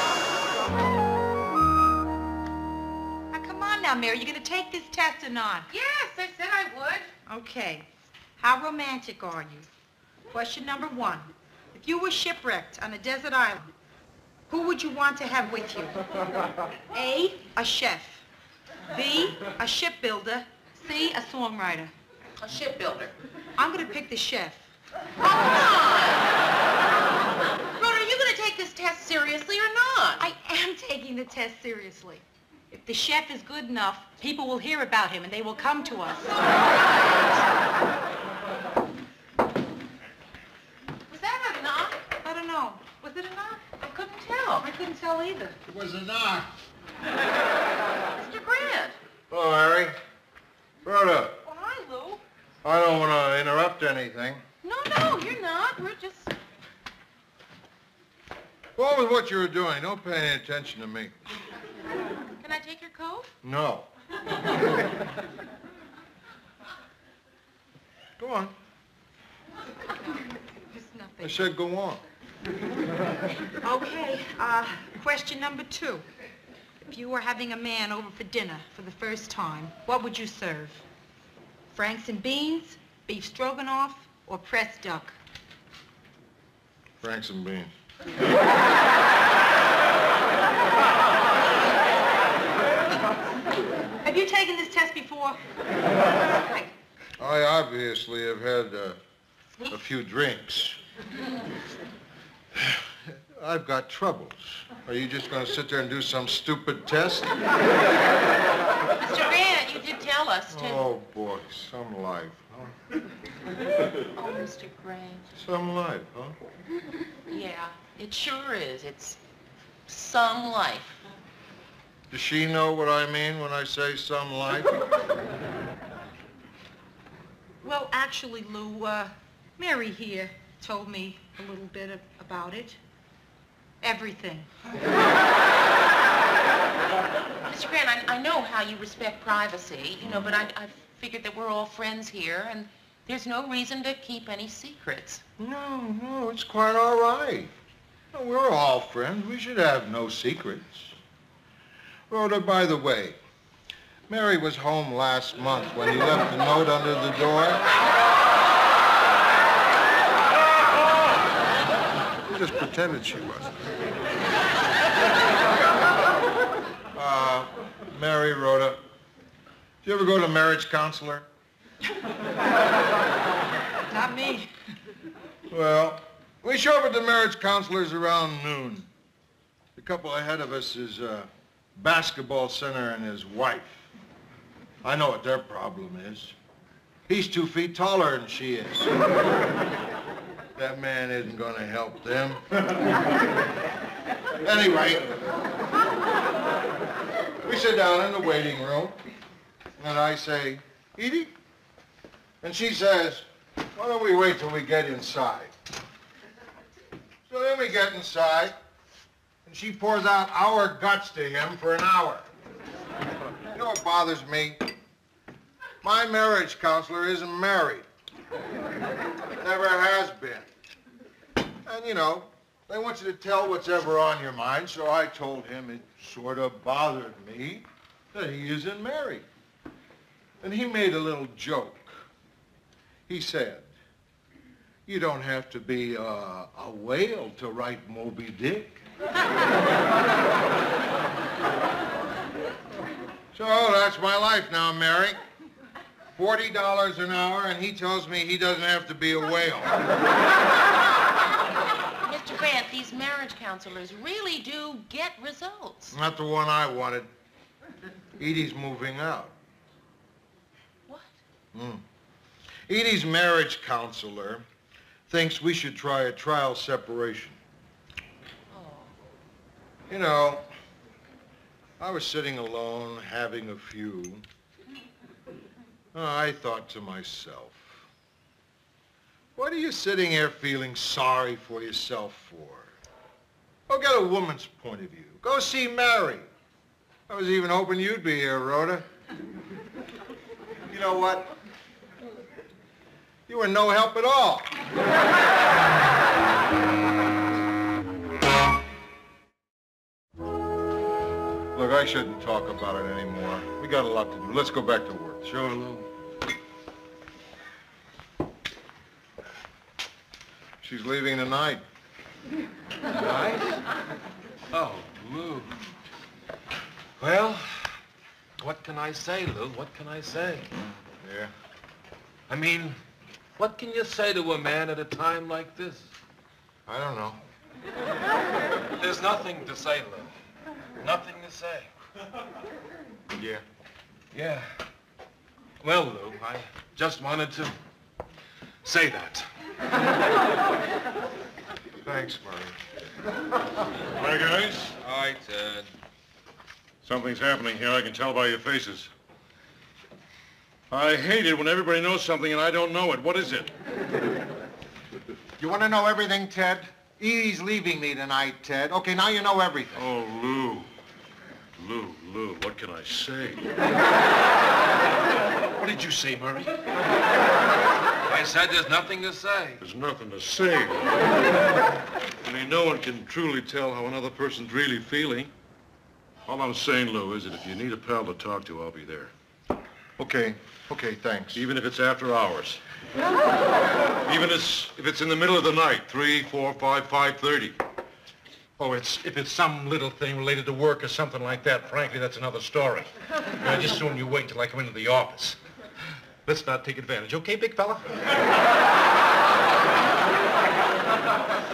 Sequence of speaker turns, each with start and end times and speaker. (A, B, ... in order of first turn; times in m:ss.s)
0:03.3-0:05.6 A
0:05.7-0:07.1 B
0:07.3-0:09.7 A
0:10.3-0:13.7 A
0:14.5-0:16.0 A
0:16.9-0:18.2 A
0:18.9-0:21.9 A
0:22.4-0:23.2 B
0:23.6-0:24.7 A
0:25.2-0:26.3 B
0:27.8-0:30.3 B
0:30.2-0:36.5 A
0:41.1-0:42.0 B
0:42.2-0:43.6 A
0:43.8-0:44.6 B
0:44.6-0:45.6 A
0:45.6-0:46.6 C
0:48.2-0:49.0 B
0:49.3-0:50.0 C
0:50.8-0:51.4 C
0:51.4-0:52.2 B
0:52.6-0:54.4 C
0:54.6-0:56.3 B
0:58.8-1:01.2 C
1:02.4-1:03.3 B
1:03.4-1:03.9 C
1:08.2-1:08.5 C
1:10.7-1:11.4 A
1:11.2-1:12.0 C
1:13.6-1:16.0 A
1:16.8-1:20.8 A
1:21.7-1:25.2 A
1:27.0-1:27.7 C
1:34.0-1:35.4 A
1:36.2-1:36.7 A
1:37.2-1:39.0 C
1:39.7-1:40.8 C
1:42.5-1:47.3 C
1:49.0-1:50.9 B
1:50.5-1:52.8 C
1:54.1-1:55.2 B
1:55.3-1:56.4 C
1:57.3-1:59.2 B
1:59.9-2:01.0 B
2:02.1-2:04.9 C
2:07.6-2:12.8 A
2:13.8-2:14.5 A
2:17.4-2:25.2 B
2:25.4-2:27.5 C
2:28.1-2:31.0 C
2:32.1-2:33.2 C
2:34.1-2:37.6 C
2:42.2-2:43.7 C
2:46.9-2:48.8 C
2:49.8-2:51.2 C
2:53.9-2:54.5 A
2:55.5-2:58.9 C
2:59.8-3:03.9 C
3:04.8-3:06.3 C
3:07.1-3:09.0 C
3:10.6-3:13.0 C
3:14.4-3:15.1 C
3:17.4-3:19.0 C
3:19.8-3:21.3 C
3:22.4-3:25.5 C
3:27.3-3:28.6 C
3:29.4-3:32.3 C
3:33.5-3:34.7 C
3:35.8-3:37.9 C
3:39.4-3:40.5 C
3:41.6-3:49.2 C
3:50.4-3:52.1 C
3:53.1-3:53.7 C
3:54.8-3:58.8 C
4:03.3-4:05.2 C
4:06.2-4:09.8 C
4:12.0-4:16.0 B
4:15.9-4:17.1 C
4:18.2-4:19.4 C
4:20.9-4:21.2 B
4:21.5-4:21.8 C
4:22.7-4:24.4 C
4:25.1-4:27.4 C
4:28.5-4:29.0 B
4:29.9-4:30.5 C
4:31.8-4:34.2 C
4:35.9-4:37.8 C
4:39.4-4:42.7 C
4:43.7-4:46.3 C
4:47.1-4:48.8 C
4:50.7-4:51.3 C
4:53.3-4:54.6 C
5:01.5-5:05.8 C
5:10.6-5:11.6 C
5:12.9-5:13.6 D
5:14.5-5:15.6 D
5:17.0-5:17.8 D
5:18.4-5:20.5 D
5:21.0-5:21.3 C
5:22.3-5:22.8 D
5:23.4-5:25.9 D
5:26.7-5:27.2 C
5:28.8-5:30.1 D
5:30.8-5:31.7 D
5:33.2-5:33.4 C
5:34.1-5:34.5 D
5:35.6-5:37.5 D
5:38.6-5:39.3 D
5:41.8-5:42.6 C
5:43.9-5:44.7 E
5:44.8-5:45.7 D
5:46.8-5:48.9 E
5:50.7-5:53.5 E
5:55.4-5:59.8 C
5:59.8-6:00.7 E
6:01.6-6:03.5 E
6:05.6-6:06.5 E
6:08.0-6:09.6 D
6:09.6-6:11.1 E
6:12.2-6:15.3 E
6:16.2-6:19.1 E
6:20.0-6:21.4 C
6:21.3-6:22.6 E
6:24.0-6:27.6 E
6:28.6-6:32.8 E
6:29.2-6:32.8 D
6:33.4-6:34.6 D
6:33.4-6:35.4 E
6:36.3-6:37.8 D
6:36.3-6:36.7 E